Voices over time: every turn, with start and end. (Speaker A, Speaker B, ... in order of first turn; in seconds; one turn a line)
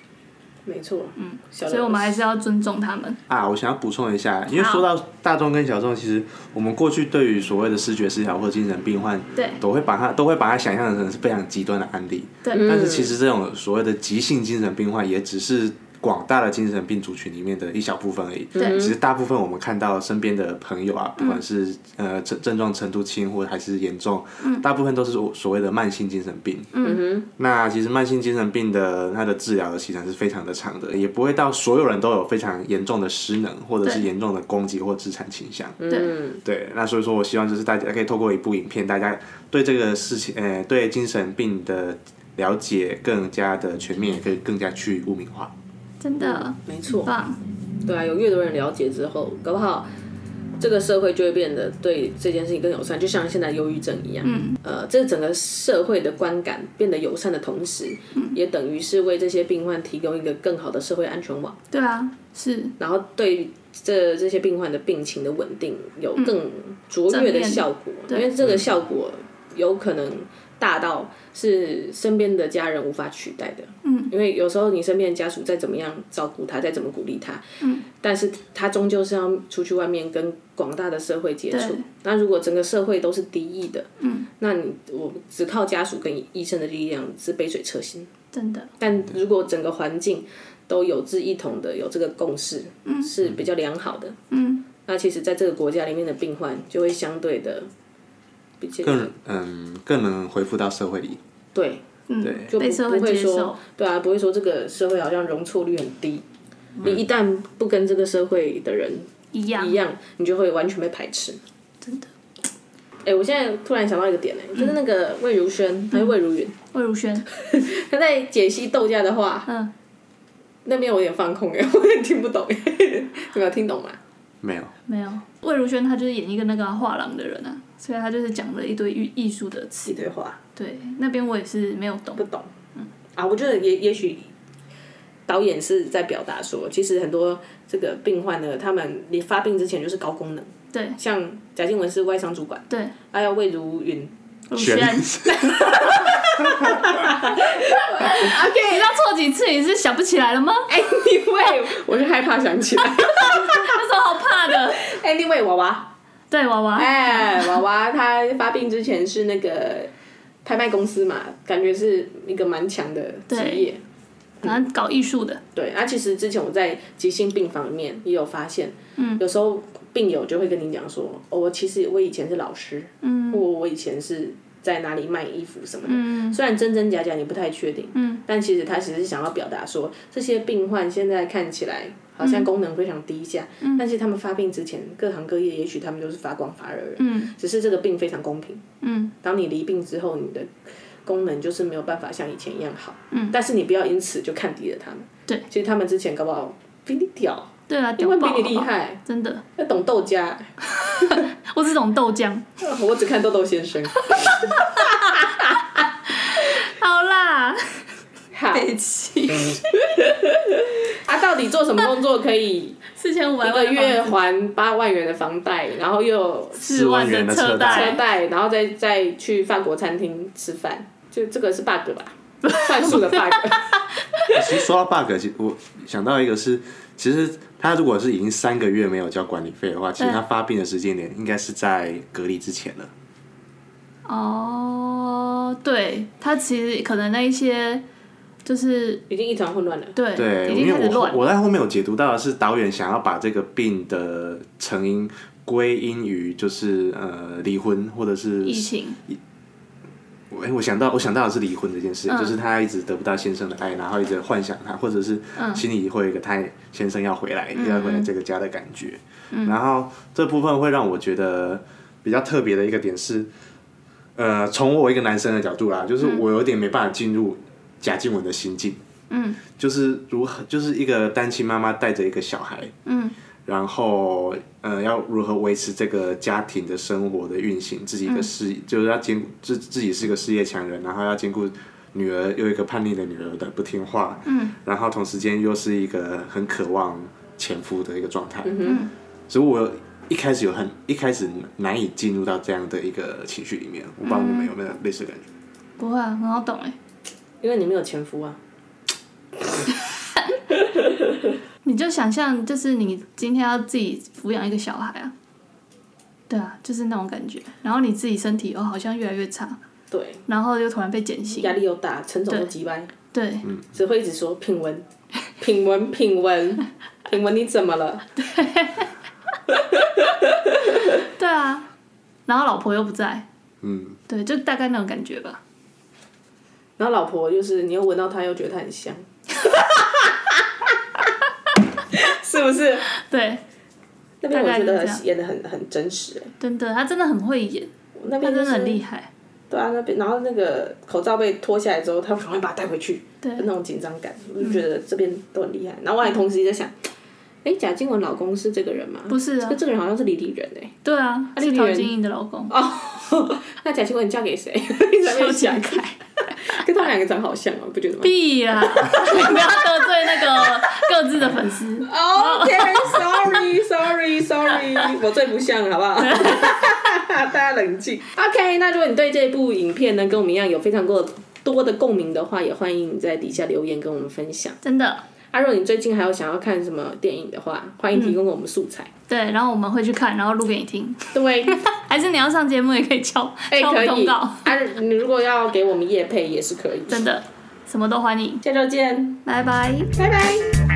Speaker A: 0.7-2.2
Speaker B: 1.2-3.2
Speaker C: 3.3-26.7
Speaker B: 4.5-4.8
Speaker B: 12.4-12.7
Speaker A: 12.5-13.2
Speaker B: 18.6-18.8
Speaker A: 18.6-18.9
Speaker B: 21.2-21.4
Speaker B: 26.7-27.0
Speaker A: 26.8-27.3
Speaker C: 27.4-35.8
Speaker A: 35.8-36.4
Speaker C: 36.4-45.5
Speaker B: 46.0-47.4
Speaker A: 46.2-47.1
Speaker A: 47.8-49.9
Speaker A: 50.6-61.6
Speaker B: 54.2-54.6
Speaker B: 61.7-62.8
Speaker A: 62.8-88.1
Speaker B: 67.1-68.3
Speaker B: 73.8-74.1
Speaker B: 77.6-77.8
Speaker B: 81.5-81.8
Speaker B: 84.0-84.3
Speaker B: 88.3-88.7
Speaker A: 88.8-94.2
Speaker B: 92.8-93.1
Speaker B: 94.3-94.7
Speaker A: 94.8-97.7
Speaker A: 98.6-99.1
Speaker C: 98.8-101.2
Speaker A: 101.5-101.8
Speaker B: 102.1-103.6
Speaker C: 102.2-102.5
Speaker A: 102.5-106.2
Speaker A: 106.8-111.4
Speaker B: 109.3-109.8
Speaker A: 113.0-116.5
Speaker B: 116.7-117.2
Speaker A: 117.3-119.5
Speaker A: 120.6-124.0
Speaker C: 124.4-124.7
Speaker B: 124.9-130.0
Speaker A: 129.8-130.4
Speaker B: 130.6-132.2
Speaker A: 132.2-132.5
Speaker A: 133.1-134.3
Speaker A: 135.3-144.1
Speaker B: 140.7-141.0
Speaker B: 142.7-142.9
Speaker B: 144.5-146.2
Speaker C: 144.6-147.1
Speaker A: 145.8-148.9
Speaker B: 147.8-150.7
Speaker A: 150.7-153.8
Speaker B: 153.1-154.8
Speaker A: 154.7-155.9
Speaker B: 156.3-157.5
Speaker A: 156.8-159.9
Speaker A: 160.4-163.8
Speaker B: 163.3-163.7
Speaker B: 164.4-165.4
Speaker A: 165.5-188.6
Speaker B: 169.0-169.2
Speaker B: 173.0-173.4
Speaker B: 175.8-176.4
Speaker B: 177.9-178.2
Speaker B: 182.2-182.5
Speaker B: 183.6-183.8
Speaker B: 187.0-187.3
Speaker B: 188.8-189.1
Speaker A: 189.2-199.0
Speaker B: 193.1-193.4
Speaker B: 197.7-199.4
Speaker A: 199.6-201.1
Speaker B: 200.6-202.5
Speaker A: 202.6-205.7
Speaker B: 204.1-207.8
Speaker A: 208.3-208.7
Speaker B: 208.5-209.8
Speaker A: 210.0-212.8
Speaker B: 212.9-214.1
Speaker A: 213.4-216.6
Speaker B: 216.6-218.0
Speaker C: 216.7-218.0
Speaker A: 217.7-223.7
Speaker B: 222.5-223.0
Speaker C: 224.3-232.9
Speaker B: 234.1-237.8
Speaker B: 238.4-239.0
Speaker A: 239.1-239.9
Speaker B: 239.9-241.2
Speaker C: 240.2-249.2
Speaker B: 248.4-249.0
Speaker C: 250.3-263.3
Speaker B: 252.1-252.4
Speaker B: 255.3-255.6
Speaker B: 257.5-258.1
Speaker C: 264.1-268.8
Speaker B: 269.1-269.4
Speaker C: 269.6-272.7
Speaker B: 272.9-273.1
Speaker C: 273.4-288.7
Speaker B: 284.2-284.6
Speaker A: 288.4-288.9
Speaker B: 288.6-288.9
Speaker C: 289.3-295.2
Speaker B: 294.0-294.5
Speaker B: 295.8-296.8
Speaker A: 297.4-298.4
Speaker A: 300.5-301.2
Speaker B: 301.6-305.1
Speaker B: 306.3-309.6
Speaker A: 309.9-310.2
Speaker B: 310.3-311.5
Speaker A: 311.3-312.9
Speaker B: 313.1-313.5
Speaker A: 313.7-314.9
Speaker A: 315.4-318.1
Speaker B: 318.2-318.9
Speaker A: 319.5-320.8
Speaker B: 320.9-321.7
Speaker B: 322.3-323.2
Speaker C: 323.6-324.0
Speaker B: 324.1-325.4
Speaker A: 326.8-330.7
Speaker A: 331.9-332.9
Speaker B: 332.9-333.4
Speaker A: 334.2-336.3
Speaker B: 334.3-335.0
Speaker B: 336.4-337.7
Speaker A: 337.9-338.8
Speaker B: 338.2-339.1
Speaker A: 339.5-346.7
Speaker B: 343.2-343.5
Speaker A: 347.4-350.7
Speaker B: 349.1-349.6
Speaker B: 350.8-352.6
Speaker A: 351.3-351.9
Speaker A: 352.5-360.6
Speaker B: 355.0-356.4
Speaker B: 358.0-363.1
Speaker A: 361.8-374.6
Speaker B: 366.0-366.6
Speaker B: 374.6-375.0
Speaker A: 375.3-378.9
Speaker B: 379.1-384.5
Speaker A: 381.1-381.6
Speaker A: 383.5-387.0
Speaker B: 386.9-388.4
Speaker A: 388.4-389.2
Speaker B: 389.2-389.9
Speaker A: 389.9-390.5